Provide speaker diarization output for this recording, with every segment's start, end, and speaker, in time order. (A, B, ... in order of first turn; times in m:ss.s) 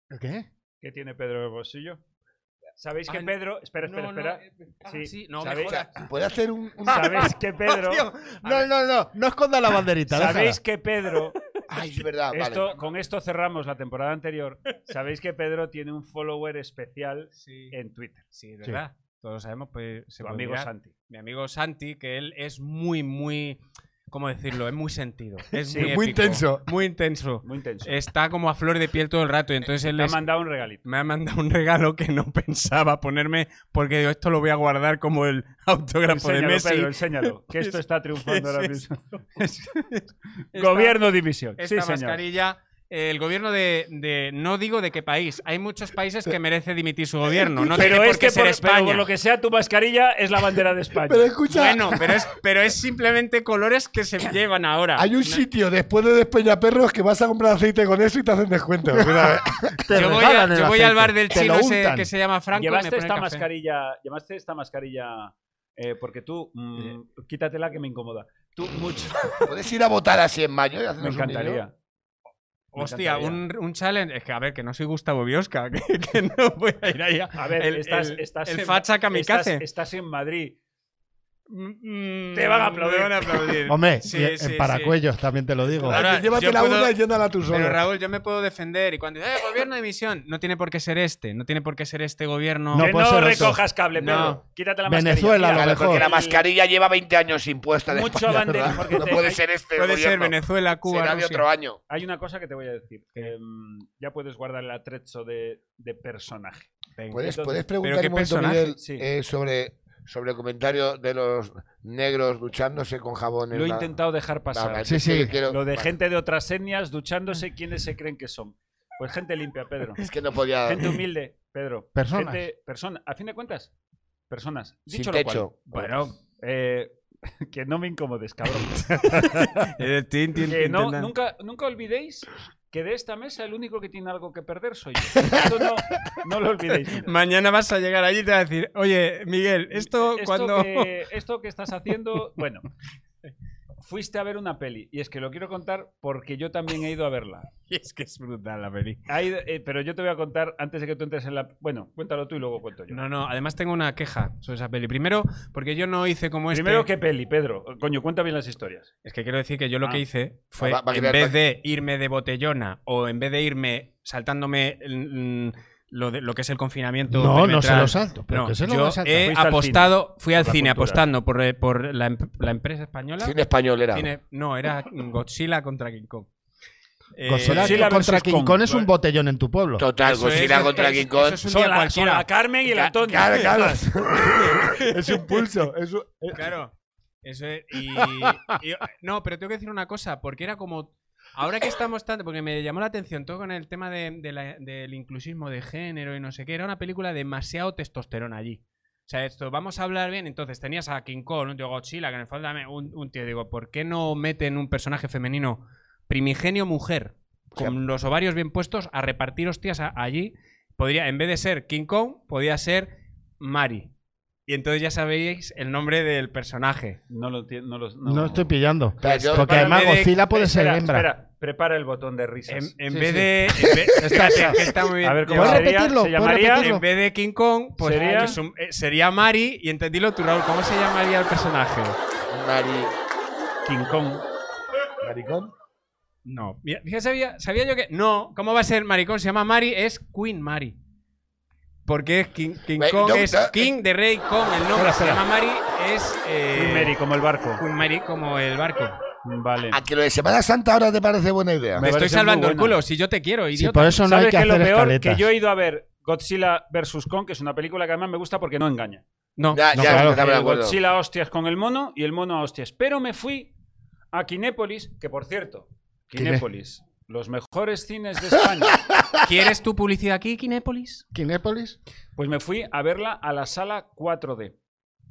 0:00.1-0:00.4 A
0:00.8-0:02.0 B
0:02.8-0:05.8 B
0:03.1-0:05.9 C
0:05.5-0:07.4 D
0:06.8-0:08.0 B
0:06.9-0:08.7 C
0:08.4-0:10.6 A
0:10.1-0:11.4 B
0:11.7-0:12.6 D
0:12.3-0:18.2 B
0:17.4-0:17.7 C
0:18.3-0:30.2 C
0:20.2-0:20.9 B
0:25.7-0:26.0 B
0:25.7-0:26.6 D
0:27.4-0:28.0 B
0:29.7-0:30.8 B
0:30.8-0:38.8 C
0:36.1-0:39.7 B
0:39.7-0:40.0 C
0:40.5-0:41.0 C
0:40.5-0:42.2 B
0:41.6-0:49.1 C
0:47.6-0:47.9 D
0:47.7-0:51.3 B
0:51.1-0:52.2 D
0:51.5-0:55.4 C
0:55.0-0:59.7 D
0:58.9-1:02.1 A
0:59.9-1:03.4 C
1:02.5-1:09.4 B
1:09.4-1:11.6 D
1:11.0-1:11.7 B
1:12.7-1:13.4 B
1:12.7-1:19.6 C
1:17.4-1:20.6 B
1:21.5-1:25.0 C
1:22.3-1:23.6 B
1:23.7-1:26.0 A
1:25.7-1:26.9 C
1:25.8-1:27.8 D
1:27.5-1:32.9 C
1:32.7-1:33.6 A
1:32.8-1:36.4 B
1:34.0-1:34.4 C
1:34.0-1:34.4 D
1:34.9-1:36.0 A
1:35.5-1:41.8 D
1:37.9-1:39.4 B
1:39.8-1:41.4 C
1:41.9-1:46.7 B
1:47.0-1:47.2 C
1:47.1-1:53.9 D
1:47.2-1:47.6 B
1:47.8-1:48.7 C
1:48.8-1:49.0 B
1:53.5-2:00.0 B
1:54.5-1:55.9 D
1:54.8-1:55.3 A
2:00.0-2:01.0 D
2:00.6-2:03.7 B
2:01.9-2:02.4 A
2:04.3-2:09.4 B
2:04.9-2:05.6 D
2:05.7-2:06.1 C
2:09.1-2:11.1 C
2:10.5-2:17.1 B
2:15.2-2:15.5 D
2:17.0-2:20.9 C
2:19.7-2:22.6 B
2:23.8-2:27.5 B
2:27.7-2:29.0 C
2:29.1-2:33.0 B
2:32.9-2:36.9 C
2:36.5-2:38.9 B
2:39.0-2:53.3 C
2:40.6-2:41.4 D
2:47.1-2:49.3 A
2:49.2-2:51.0 B
2:53.2-2:54.1 D
2:53.9-2:56.3 C
2:57.2-2:57.9 C
2:57.2-2:59.9 A
2:57.4-2:58.9 B
2:59.8-3:01.4 D
3:00.0-3:02.3 C
3:01.5-3:03.8 B
3:02.7-3:06.5 D
3:04.3-3:05.5 C
3:06.3-3:06.7 C
3:07.2-3:33.9 C
3:34.5-3:37.0 C
3:37.1-3:42.7 B
3:38.0-3:41.1 A
3:39.0-3:39.7 D
3:39.5-3:40.2 C
3:42.5-3:52.0 C
3:42.9-3:43.4 A
3:43.6-3:44.6 D
3:44.0-3:44.7 A
3:45.0-3:46.7 B
3:45.3-3:46.8 A
3:47.8-3:48.4 B
3:52.3-3:52.9 D
3:53.6-3:54.2 B
3:55.0-3:55.5 D
3:56.2-4:00.8 C
4:01.8-4:06.9 C
4:02.8-4:03.7 D
4:04.7-4:05.2 A
4:06.5-4:07.6 B
4:07.6-4:09.0 C
4:09.2-4:09.8 B
4:09.7-4:11.8 D
4:11.8-4:14.1 C
4:11.8-4:12.8 B
4:13.5-4:15.2 A
4:14.0-4:19.0 B
4:19.4-4:19.7 C
4:19.5-4:20.8 D
4:19.7-4:20.2 A
4:19.8-4:23.5 B
4:24.1-4:28.8 B
4:26.1-4:26.4 A
4:29.2-4:31.0 C
4:31.1-4:31.8 A
4:32.2-4:34.5 B